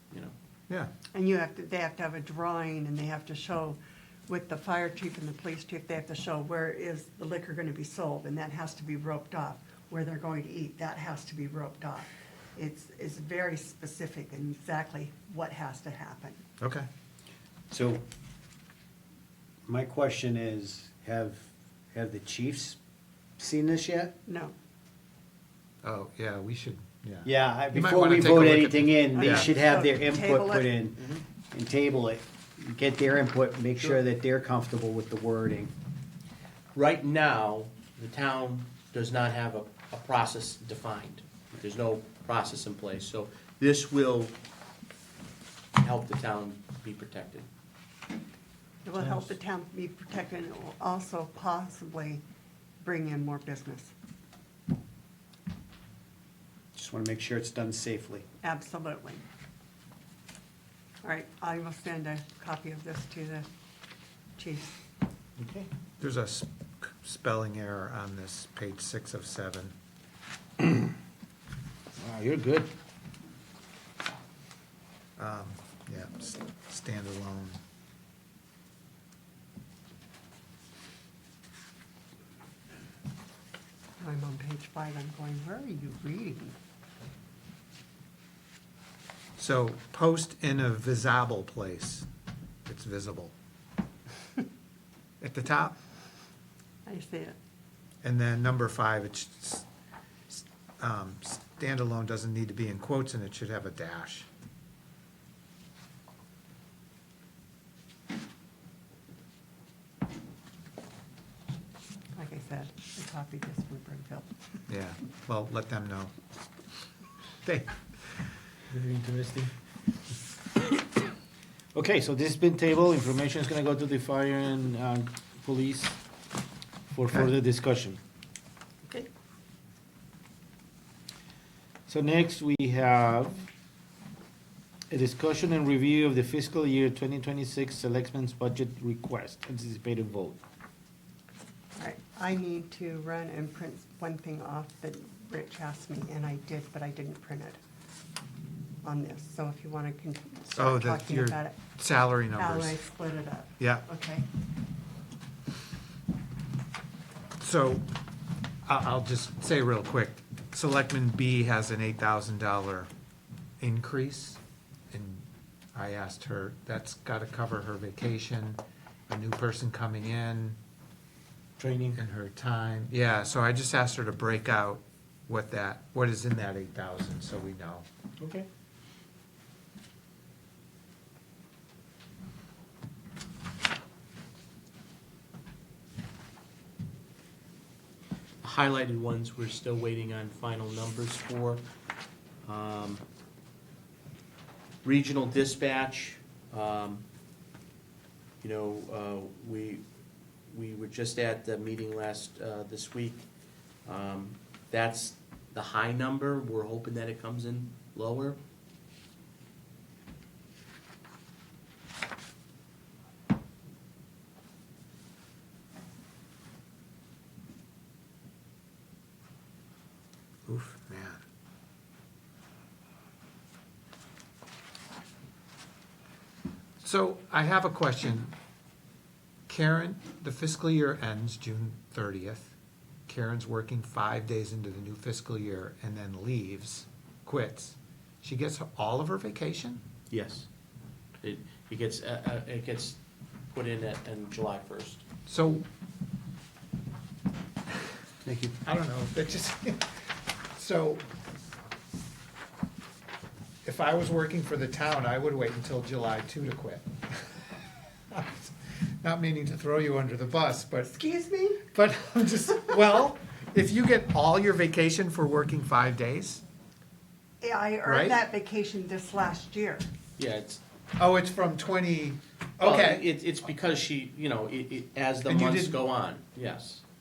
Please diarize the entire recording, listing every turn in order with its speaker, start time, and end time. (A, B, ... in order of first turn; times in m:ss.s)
0:01.1-0:16.4 A
0:16.6-0:16.8 B
0:17.7-0:18.0 C
0:19.6-0:22.8 C
0:23.4-0:24.1 C
0:24.3-0:24.5 A
0:25.8-0:29.5 B
0:27.2-0:35.7 C
0:29.1-0:30.7 A
0:30.9-0:31.2 D
0:36.7-0:44.3 D
0:45.8-0:47.5 D
0:48.8-0:52.2 A
0:52.8-0:53.9 A
0:56.8-0:58.2 C
0:58.4-0:59.2 A
1:01.0-1:03.4 A
1:04.4-1:04.8 A
1:06.0-1:09.7 B
1:12.0-1:12.7 E
1:15.2-1:17.6 B
1:24.0-1:26.6 A
1:29.4-1:32.0 B
1:32.6-1:33.3 B
1:35.2-1:35.7 B
1:36.8-1:37.4 A
1:38.0-1:39.6 B
1:40.3-1:44.3 B
1:52.1-1:54.3 A
1:54.7-1:56.1 B
1:57.4-1:58.3 B
1:58.7-1:59.5 E
2:01.7-2:06.0 E
2:06.9-2:08.0 E
2:11.9-2:13.4 E
2:14.9-2:20.4 E
2:21.8-2:27.6 A
2:28.8-2:31.6 A
2:30.6-2:32.8 B
2:32.3-2:34.3 A
2:37.4-2:37.8 B
2:38.6-2:42.9 B
2:43.6-2:44.4 B
2:44.9-2:50.6 B
2:51.6-2:51.9 E
2:51.9-2:57.8 B
2:58.2-2:58.4 E
3:08.4-3:11.6 D
3:12.4-3:13.0 D
3:14.8-3:17.0 D
3:18.4-3:19.8 D
3:20.5-3:23.2 D
3:23.8-3:28.4 D
3:40.5-3:41.2 B
3:46.8-3:48.3 B
3:49.5-3:52.5 B
3:53.1-3:59.8 B
4:00.1-4:00.5 D
4:01.2-4:03.0 D
4:03.5-4:05.0 D
4:05.3-4:05.6 B
4:08.2-4:08.6 C
4:08.6-4:09.9 B
4:10.5-4:11.0 B
4:13.6-4:17.4 B
4:18.1-4:20.9 B
4:20.8-4:21.6 A
4:21.7-4:26.4 B
4:27.4-4:29.9 A
4:27.8-4:28.2 B
4:30.2-4:30.6 D
4:31.0-4:33.0 B
4:32.6-4:36.8 D
4:35.3-4:35.8 B